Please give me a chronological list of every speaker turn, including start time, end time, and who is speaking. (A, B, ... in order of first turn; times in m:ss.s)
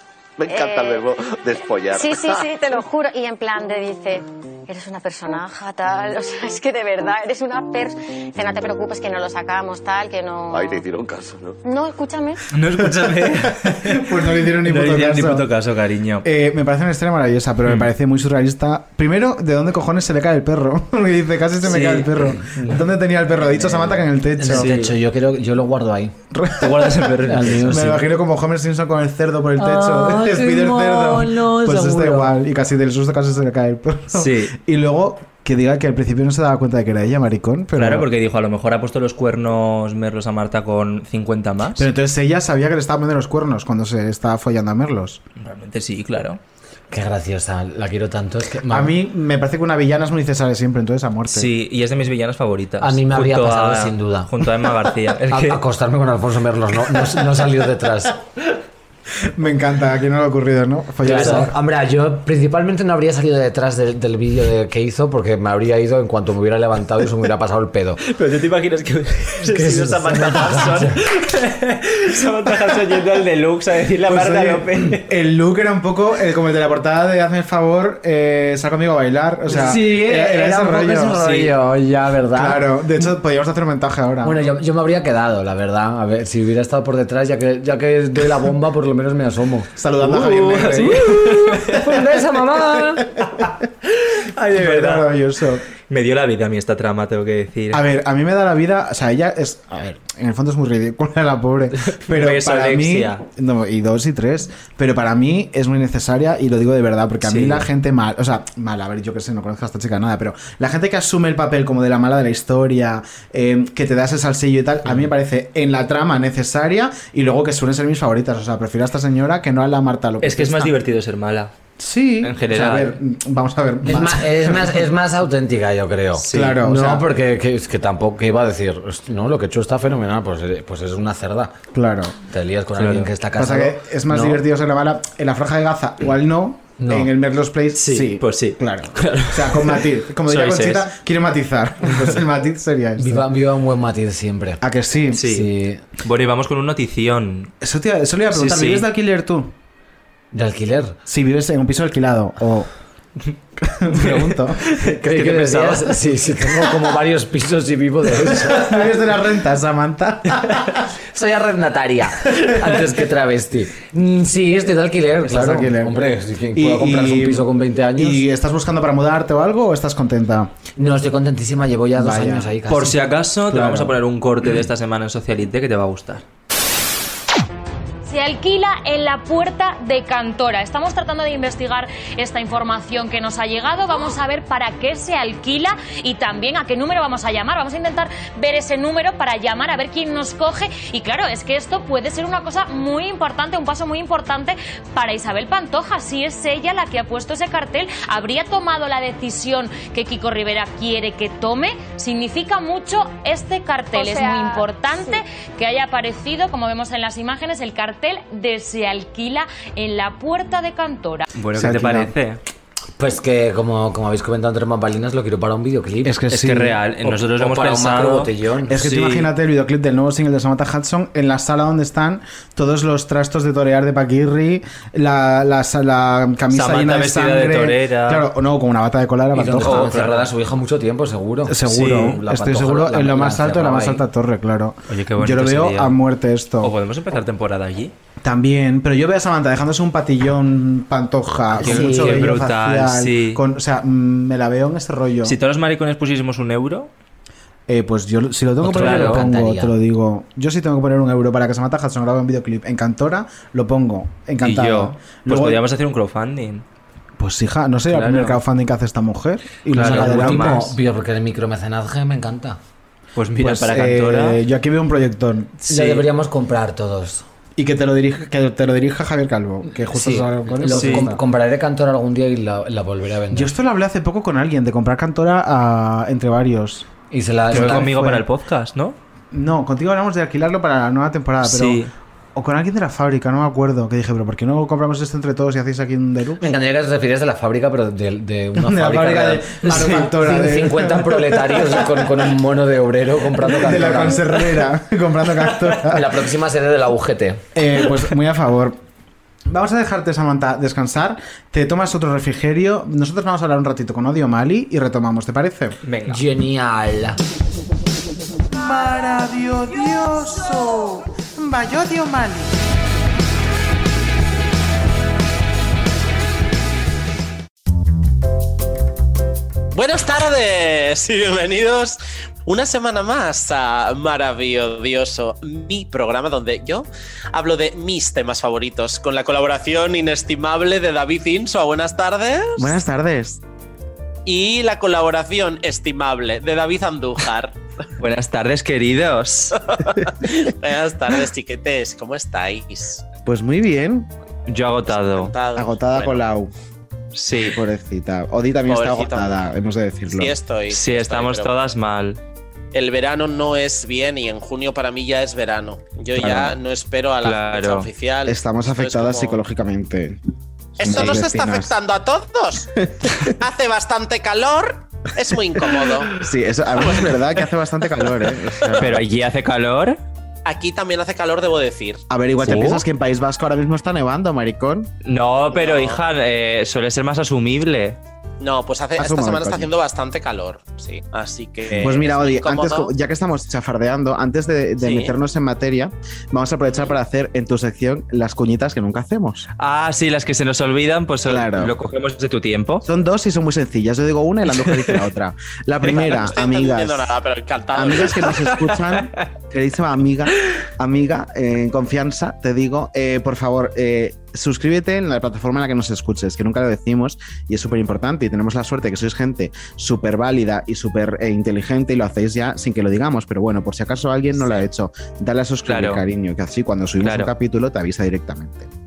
0:00.4-0:02.6 A
0:00.5-0:01.0 B
0:01.9-0:10.8 B
0:10.5-0:11.6 A
0:11.6-0:12.4 B
0:12.5-0:14.0 C
0:12.8-0:15.5 D
0:14.6-0:16.2 C
0:16.2-0:24.7 D
0:21.6-0:22.8 C
0:23.8-0:26.1 E
0:24.5-0:24.9 C
0:26.3-0:38.1 D
0:26.6-0:27.8 C
0:27.3-0:28.0 E
0:29.6-0:32.3 E
0:34.1-0:34.6 C
0:37.8-0:41.9 C
0:41.8-0:45.2 D
0:45.4-0:46.4 C
0:46.9-0:48.9 E
0:48.7-0:51.5 D
0:51.3-0:55.6 C
0:52.8-0:54.3 E
0:55.3-0:58.2 E
0:59.4-1:01.5 D
1:01.0-1:08.0 E
1:01.0-1:01.5 C
1:08.0-1:15.1 C
1:09.5-1:11.0 E
1:14.1-1:21.2 D
1:19.5-1:22.8 E
1:21.2-1:21.5 C
1:22.3-1:24.4 D
1:24.2-1:29.7 E
1:29.8-1:31.5 D
1:30.0-1:32.0 C
1:30.8-1:33.1 E
1:33.0-1:33.5 D
1:34.4-1:35.6 D
1:34.5-1:35.1 C
1:35.9-1:37.8 C
1:37.7-2:00.7 D
1:42.1-1:43.2 C
1:47.2-1:47.7 C
2:00.2-2:01.5 C
2:01.8-2:04.8 D
2:02.2-2:03.0 C
2:03.9-2:11.6 E
2:06.2-2:06.6 C
2:06.3-2:07.1 D
2:11.7-2:12.2 D
2:12.3-2:14.4 E
2:12.8-2:13.1 C
2:13.4-2:23.3 D
2:16.8-2:17.1 E
2:17.8-2:20.9 C
2:23.0-2:24.6 E
2:24.6-2:25.2 D
2:25.2-2:25.8 E
2:25.2-2:27.5 C
2:27.6-2:29.5 D
2:28.3-2:28.9 C
2:30.3-2:31.0 E
2:31.1-2:32.7 D
2:33.6-2:34.6 D
2:33.9-2:36.0 C
2:34.9-2:38.8 E
2:38.2-2:40.8 D
2:41.1-2:48.2 E
2:45.2-2:50.5 D
2:50.8-2:52.9 E
2:52.0-2:52.5 D
2:52.7-2:56.2 C
2:53.5-2:53.9 D
2:58.0-3:31.3 F
3:31.4-3:32.4 C
3:31.5-3:32.1 D
3:33.0-3:36.2 E
3:36.0-3:36.8 D
3:36.3-3:39.3 C
3:37.1-3:38.7 E
3:38.7-3:50.1 D
3:46.5-3:48.3 C
3:49.3-3:54.0 E
3:49.5-3:50.3 C
3:51.5-3:56.7 D
3:51.7-3:52.2 C
3:54.9-3:56.0 C
3:56.6-3:57.9 C
3:58.2-4:05.4 D
4:01.6-4:02.3 E
4:01.6-4:03.4 C
4:05.2-4:06.9 C
4:07.7-4:15.6 D
4:08.6-4:09.8 E
4:08.7-4:09.2 C
4:14.4-4:16.6 C
4:17.2-4:20.7 D
4:17.9-4:18.4 E
4:19.7-4:20.8 C
4:19.8-4:22.6 E
4:23.2-4:24.4 C
4:23.4-4:25.6 D
4:25.6-4:26.0 C
4:25.7-4:27.2 E
4:27.6-4:31.2 D
4:29.9-4:33.5 E
4:30.6-4:31.1 C
4:33.3-4:36.9 D
4:37.1-4:37.9 E
4:37.5-4:38.2 D
4:37.5-4:39.0 C
4:39.3-4:41.8 D
4:41.4-4:41.9 C
4:42.4-4:46.4 D
4:46.4-4:54.2 E
4:48.6-4:51.9 D
4:53.6-4:56.2 D
4:55.9-4:57.4 E
4:57.6-4:58.8 D
4:59.5-5:05.8 D
5:05.8-5:06.2 C
5:06.1-5:07.2 E
5:08.5-5:12.6 D
5:19.7-5:32.7 G
5:32.6-5:33.4 D
5:34.3-5:37.6 G
5:38.0-5:39.6 C
5:39.5-5:43.0 G
5:43.3-5:44.1 D
5:44.5-5:45.3 C
5:44.9-5:46.2 G
5:45.6-5:46.5 D
5:47.2-5:47.6 C
5:47.4-5:50.4 D
5:48.7-5:49.4 G
5:50.1-5:51.5 G
5:50.7-5:52.2 C
5:52.7-5:59.4 G
5:56.2-5:56.6 D
5:57.2-5:57.9 C
5:58.3-6:00.2 D
6:00.8-6:01.7 D
6:00.8-6:02.7 G
6:02.8-6:03.3 D
6:03.4-6:06.1 G
6:06.1-6:09.0 D
6:08.8-6:10.0 C
6:10.5-6:12.0 G
6:12.1-6:14.9 D
6:12.4-6:12.8 C
6:15.0-6:18.0 C
6:15.5-6:16.0 G
6:18.4-6:22.9 G
6:19.0-6:19.7 D
6:21.7-6:29.5 D
6:24.8-6:25.2 G
6:29.6-6:32.8 C
6:31.2-6:31.8 D
6:32.8-6:37.1 D
6:34.6-6:35.0 C
6:35.8-6:36.2 C
6:35.9-6:38.2 G
6:37.8-6:58.7 D
6:38.2-6:39.2 C
6:55.7-6:56.0 C
6:57.0-6:57.3 C